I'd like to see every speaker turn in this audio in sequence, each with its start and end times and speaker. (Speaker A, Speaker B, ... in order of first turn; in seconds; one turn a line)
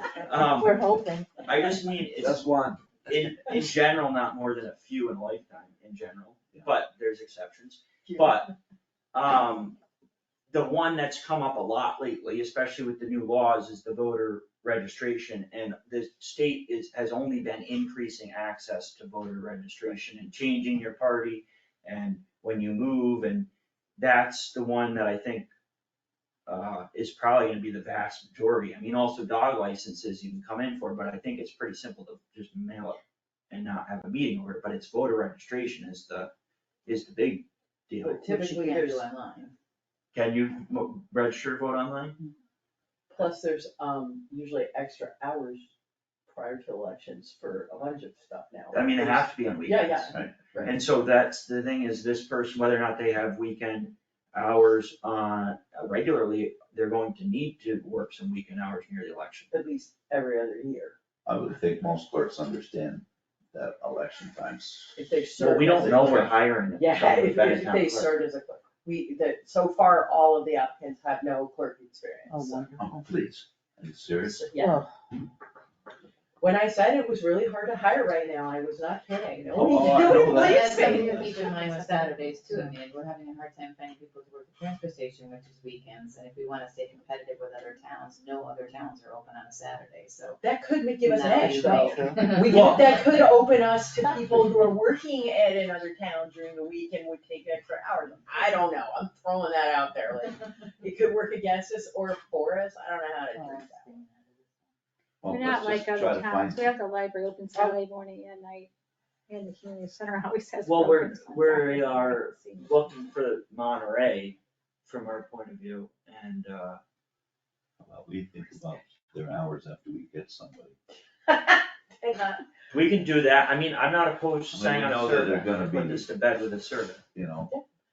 Speaker A: 0.2-0.8
Speaker B: 0.6-1.3
Speaker A: 1.4-2.4
Speaker C: 2.2-2.9
Speaker A: 3.1-8.5
Speaker D: 8.1-8.3
Speaker A: 9.1-9.8
Speaker A: 10.5-25.5
Speaker A: 26.5-36.3
Speaker A: 36.9-38.3
Speaker D: 38.0-39.1
Speaker E: 38.2-39.5
Speaker A: 40.1-42.2
Speaker D: 43.1-45.7
Speaker D: 46.3-50.8
Speaker A: 48.7-59.5
Speaker C: 50.1-50.4
Speaker D: 59.5-61.0
Speaker C: 61.3-65.1
Speaker D: 65.0-72.7
Speaker A: 65.4-68.1
Speaker C: 65.8-66.3
Speaker B: 72.3-73.0
Speaker C: 72.8-74.5
Speaker D: 74.2-74.8
Speaker B: 74.6-74.9
Speaker D: 76.4-81.3
Speaker C: 79.5-81.3
Speaker E: 80.0-90.4
Speaker D: 90.4-104.0
Speaker E: 91.0-93.0
Speaker B: 91.7-92.2
Speaker A: 92.4-92.9
Speaker E: 103.4-104.0
Speaker C: 105.2-106.7
Speaker F: 105.3-108.7
Speaker F: 109.3-112.8
Speaker A: 110.6-116.8
Speaker C: 117.8-120.8
Speaker D: 121.3-122.5
Speaker A: 122.7-127.0
Speaker C: 124.5-126.1
Speaker C: 127.2-127.5